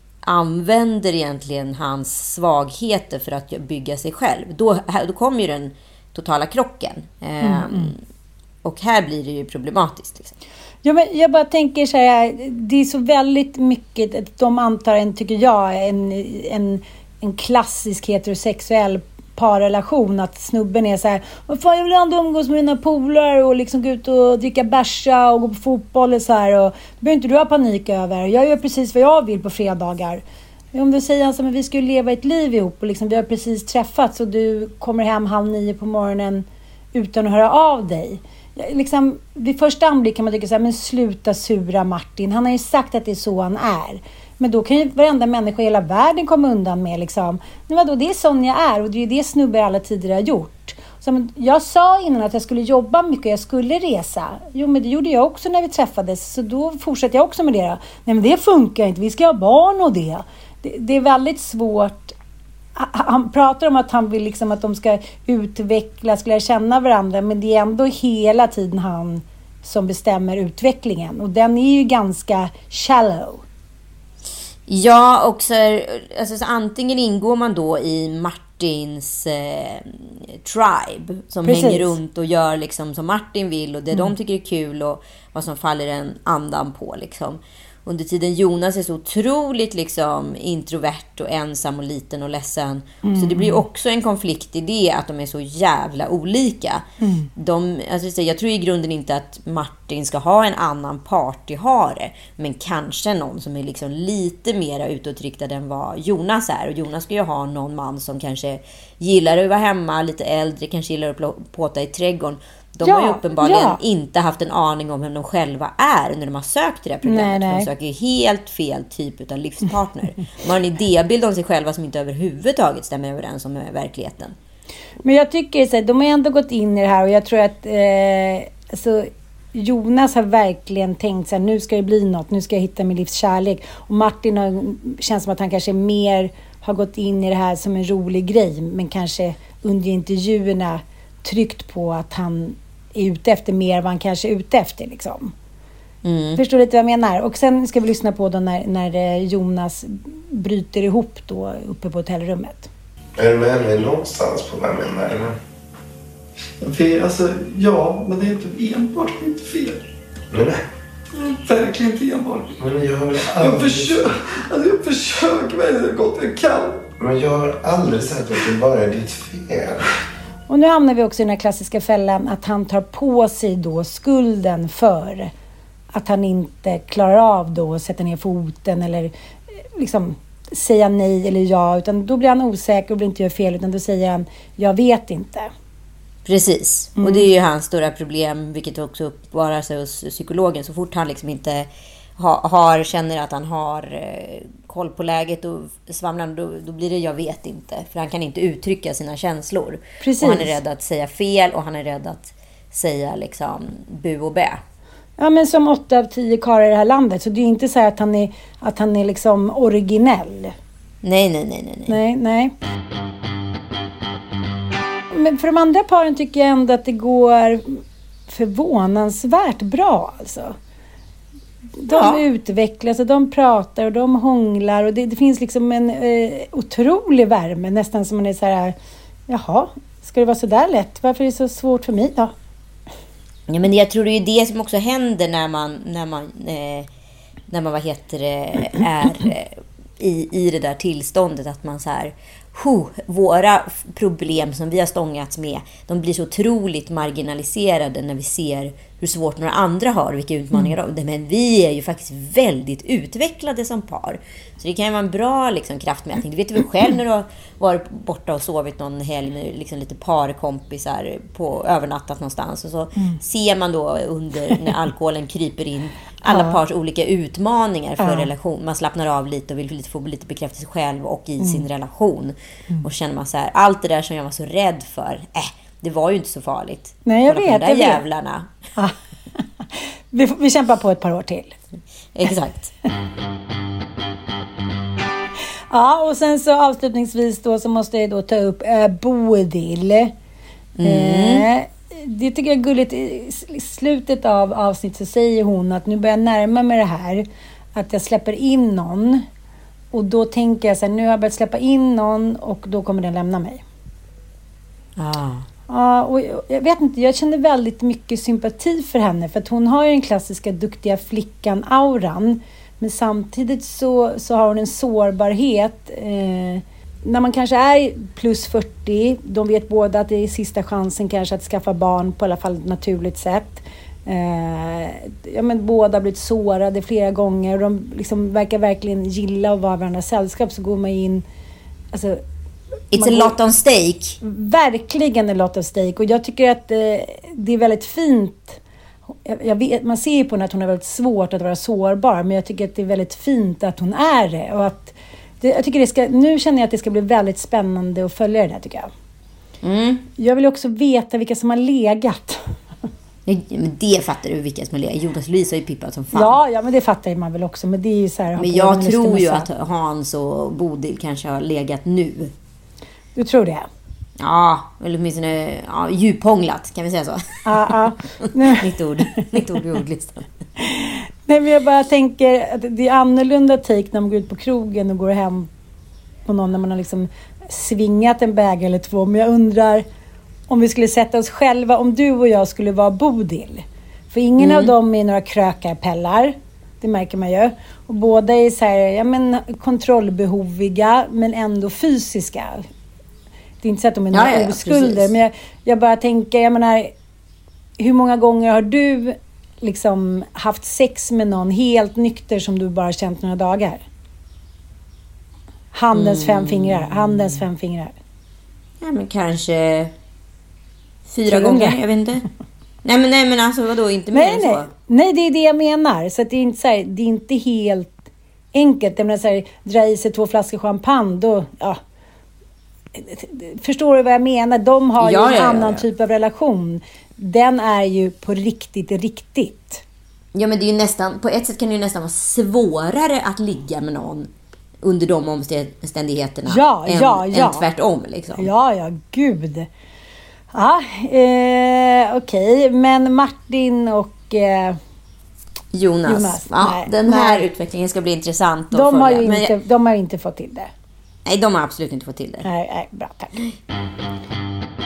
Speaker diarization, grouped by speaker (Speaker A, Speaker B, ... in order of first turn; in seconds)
Speaker A: 0.2-8.0, 8.6-10.3, 74.7-96.8, 97.4-124.3, 146.0-146.4, 186.2-204.6, 211.0-212.0, 221.9-222.2, 233.5-236.9, 237.5-278.5, 282.1-282.7, 290.8-291.4, 305.0-305.4, 332.9-334.2, 349.6-350.1, 353.2-356.4, 358.4-362.3, 364.2-370.3, 384.4-384.7, 394.1-395.1, 405.9-407.4, 408.8-409.9, 411.1-412.2, 412.8-414.7, 425.0-425.9, 430.3-434.3, 434.8-438.5, 445.7-449.5, 451.2-452.5
Speaker B: 7.4-7.9, 10.8-62.1, 62.8-73.4, 81.5-82.0, 93.0-93.6, 97.0-97.3, 112.8-113.8, 117.0-117.7, 125.0-145.3, 146.4-152.7, 170.5-175.3, 175.9-179.1, 179.8-185.5, 187.0-187.3, 200.0-200.6, 205.2-210.5, 211.9-212.5, 215.1-220.6, 221.8-228.7, 229.3-232.3, 266.3-266.6, 268.0-268.3, 277.1-278.0, 280.1-281.6, 285.7-290.1, 290.8-299.3, 299.9-303.6, 305.7-331.2, 331.9-332.2, 332.9-333.4, 334.2-338.6, 339.2-348.9, 350.2-352.5, 356.1-359.5, 363.1-363.7, 367.4-368.7, 370.6-375.5, 376.3-379.9, 380.5-392.7, 393.6-396.9, 397.8-403.9, 405.7-407.9, 411.3-411.8, 414.1-418.0, 418.5-421.8, 422.9-429.8, 436.4-437.7, 438.4-439.7, 440.5-444.8, 446.1-447.4, 448.7-450.7, 452.4-453.4
Speaker C: 153.2-155.4, 160.3-160.6, 162.6-164.0, 167.0-169.8
Speaker D: 156.6-159.8, 161.2-162.6, 163.2-166.8